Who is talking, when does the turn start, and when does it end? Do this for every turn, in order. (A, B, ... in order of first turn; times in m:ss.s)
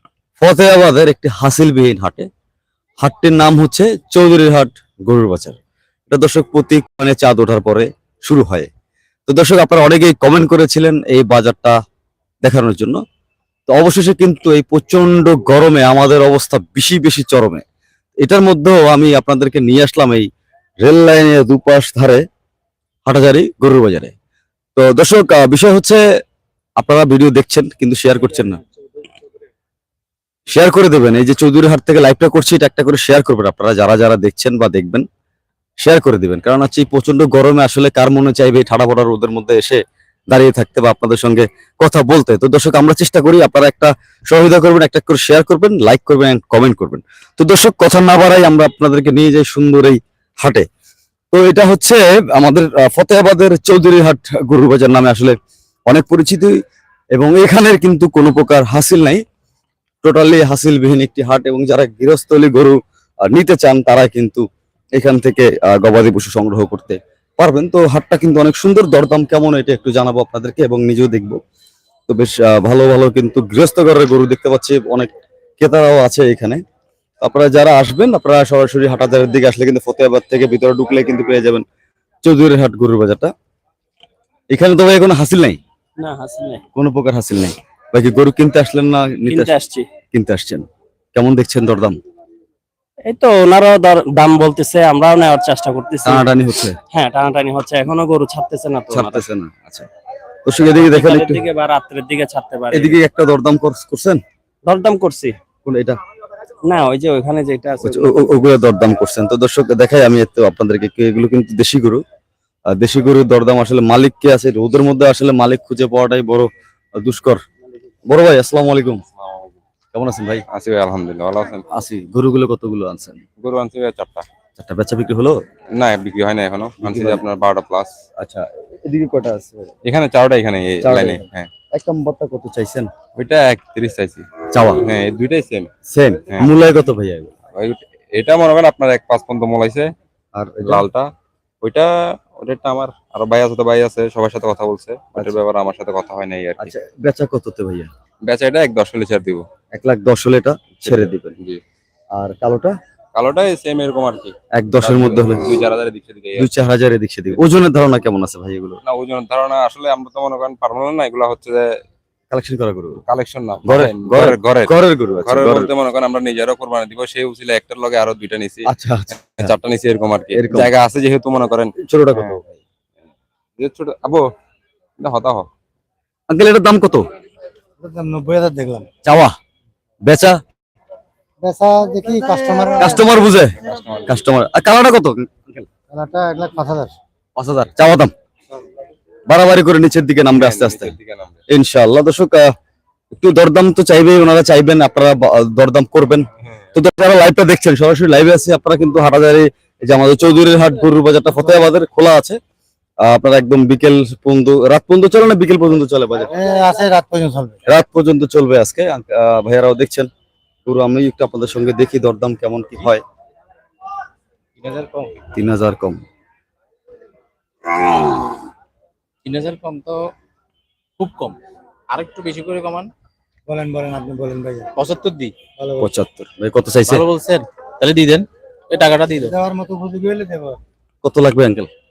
0:00.4-0:02.3 A
0:03.0-0:05.6 A
0:06.1-0:08.7 A
0:09.3-0:11.8 A
0:12.4-0:13.0 A
0:13.7-0:17.6 A
0:18.2-0:20.3 A
0:20.8-0:22.2 A
0:23.0-0:24.1 A
0:24.8-0:26.0 A
0:26.8-0:28.6 A
0:30.5-0:35.0 A
0:35.8-0:50.6 A
0:51.3-0:55.4 A
0:55.9-0:56.6 A
0:57.1-0:59.2 A
1:00.0-1:04.4 A
1:04.9-1:11.4 A
1:12.1-1:16.6 A
1:17.2-1:21.6 A
1:22.2-1:23.3 A
1:24.5-1:25.6 A
1:26.0-1:26.6 B
1:26.8-1:29.5 A
1:29.2-1:29.9 B
1:30.1-1:32.0 A
1:33.0-1:36.2 B
1:36.0-1:36.8 A
1:36.9-1:39.3 B
1:38.9-1:39.9 A
1:40.4-1:41.4 A
1:40.6-1:43.0 B
1:42.7-1:44.2 A
1:44.6-1:45.4 B
1:45.6-1:46.0 A
1:46.6-1:48.3 B
1:47.8-1:52.0 A
1:52.7-1:57.4 A
1:58.1-1:59.0 A
1:59.2-1:59.6 C
1:59.9-2:00.4 A
2:00.5-2:01.7 C
2:01.7-2:03.2 A
2:03.4-2:04.2 C
2:04.6-2:05.4 A
2:05.7-2:07.9 C
2:06.8-2:07.2 A
2:08.2-2:09.7 A
2:09.8-2:11.5 C
2:10.8-2:12.9 A
2:13.2-2:15.7 C
2:14.5-2:14.8 A
2:15.9-2:17.3 A
2:17.5-2:19.9 C
2:20.4-2:20.8 A
2:20.6-2:21.1 C
2:21.6-2:26.7 C
2:26.6-2:27.9 A
2:28.2-2:29.4 C
2:29.7-2:31.4 A
2:30.8-2:31.6 C
2:32.1-2:32.7 A
2:33.1-2:36.5 C
2:34.5-2:35.4 A
2:36.4-2:38.8 A
2:38.8-2:41.6 C
2:42.3-2:43.0 A
2:43.1-2:44.7 C
2:43.6-2:45.7 A
2:45.2-2:52.4 C
2:48.7-2:49.5 A
2:50.3-2:50.7 A
2:51.8-2:52.5 A
2:53.6-2:54.2 C
2:55.0-2:55.5 C
2:56.3-2:57.0 A
2:57.8-2:58.8 D
2:59.0-2:59.3 A
3:00.0-3:00.4 A
3:01.4-3:03.2 D
3:02.8-3:05.7 A
3:03.5-3:04.1 C
3:05.9-3:06.9 D
3:07.4-3:08.1 A
3:09.3-3:10.9 A
3:10.3-3:11.4 C
3:11.5-3:12.5 A
3:13.1-3:22.4 A
3:23.0-3:26.3 A
3:26.6-3:27.5 D
3:27.6-3:30.1 A
3:30.6-3:33.0 A
3:34.6-3:35.1 E
3:35.3-3:36.0 A
3:39.2-3:40.0 E
3:41.0-3:41.4 E
3:41.9-3:42.9 E
3:43.5-3:44.7 D
3:44.8-3:45.3 E
3:45.6-3:45.8 D
3:45.8-3:47.0 A
3:46.9-3:49.3 E
3:49.3-3:50.6 D
3:51.0-3:51.7 A